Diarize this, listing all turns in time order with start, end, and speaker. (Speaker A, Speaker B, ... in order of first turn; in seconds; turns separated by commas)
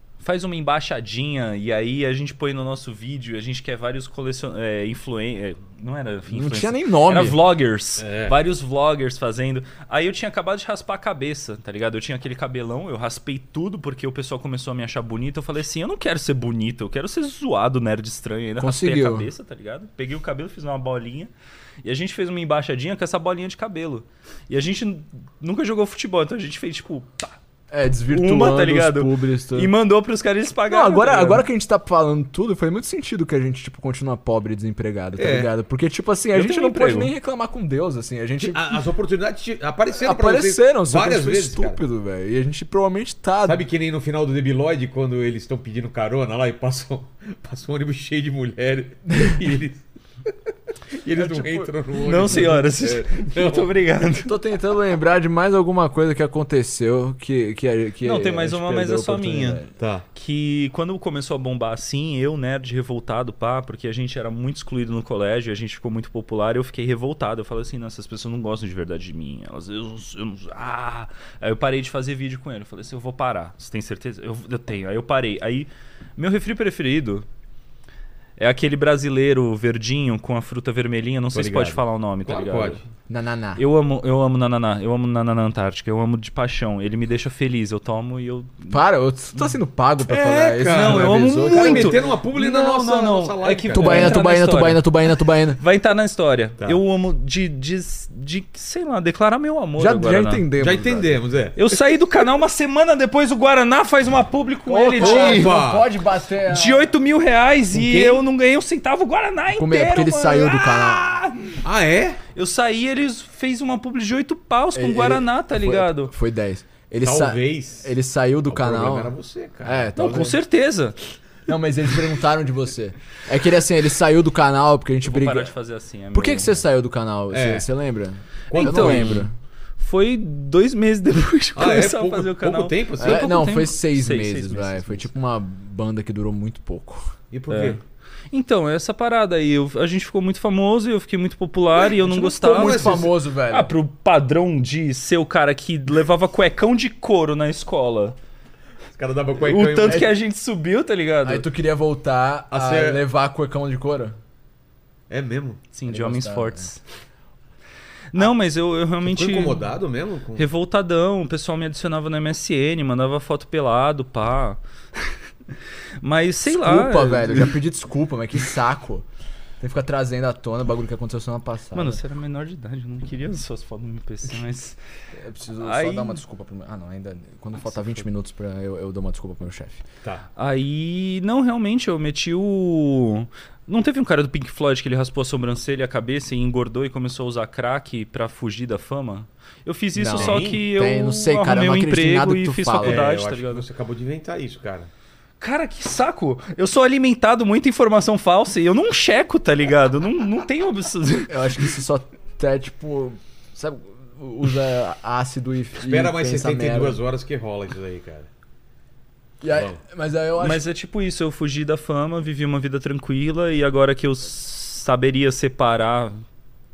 Speaker A: 0.2-21.3, Speaker B: 6.3-7.4, Speaker C: 8.0-8.4, Speaker B: 18.6-19.3, Speaker A: 21.8-27.4, Speaker B: 27.7-29.7, Speaker A: 28.1-31.4, Speaker B: 30.7-38.8, Speaker C: 35.1-35.5, Speaker A: 36.3-37.1, Speaker C: 38.4-41.8, Speaker B: 39.9-43.6, Speaker C: 43.4-49.8, Speaker C: 51.0-53.8, Speaker B: 51.1-51.7, Speaker A: 52.0-54.3, Speaker B: 52.3-52.5, Speaker B: 54.2-59.7, Speaker A: 58.0-59.6, Speaker C: 59.8-60.1, Speaker A: 60.1-77.2, Speaker A: 78.4-82.8, Speaker C: 81.3-82.8, Speaker B: 83.1-83.6, Speaker A: 83.6-88.8, Speaker B: 88.7-92.1, Speaker C: 90.1-94.2, Speaker A: 90.7-94.9, Speaker B: 93.7-95.6, Speaker A: 95.5-100.5, Speaker B: 99.8-101.2, Speaker C: 100.6-101.6, Speaker A: 101.5-105.6, Speaker B: 104.7-106.9, Speaker C: 105.0-105.9, Speaker A: 106.5-111.6, Speaker C: 107.7-108.2, Speaker B: 109.5-111.1, Speaker C: 111.6-112.2, Speaker A: 112.3-116.1, Speaker B: 114.7-120.4, Speaker C: 117.0-117.9, Speaker C: 118.5-120.3, Speaker A: 120.0-121.0, Speaker B: 121.5-125.5, Speaker A: 125.0-126.6, Speaker B: 126.1-129.3, Speaker C: 127.3-127.7, Speaker C: 128.5-129.3, Speaker A: 128.5-129.3, Speaker A: 129.8-135.1, Speaker C: 131.6-133.4, Speaker B: 133.0-137.1, Speaker C: 137.3-137.8, Speaker A: 137.5-148.2, Speaker B: 142.0-143.7, Speaker C: 142.4-143.1, Speaker C: 148.9-150.1, Speaker A: 149.4-151.4, Speaker B: 151.2-154.2, Speaker C: 152.5-153.0, Speaker C: 155.1-155.6, Speaker A: 155.7-156.8, Speaker B: 155.9-156.7, Speaker A: 158.1-159.7, Speaker C: 159.0-160.5, Speaker A: 160.4-165.1, Speaker A: 166.0-167.5, Speaker B: 166.4-169.1, Speaker B: 169.6-172.0, Speaker A: 171.7-174.8, Speaker B: 175.2-179.8, Speaker A: 175.6-176.2, Speaker A: 180.3-193.7, Speaker B: 189.9-193.1, Speaker C: 190.1-190.6, Speaker C: 192.8-194.9, Speaker A: 195.4-201.7, Speaker B: 201.3-207.0, Speaker C: 205.8-208.3, Speaker B: 209.4-210.7, Speaker C: 209.5-209.8, Speaker A: 210.4-216.2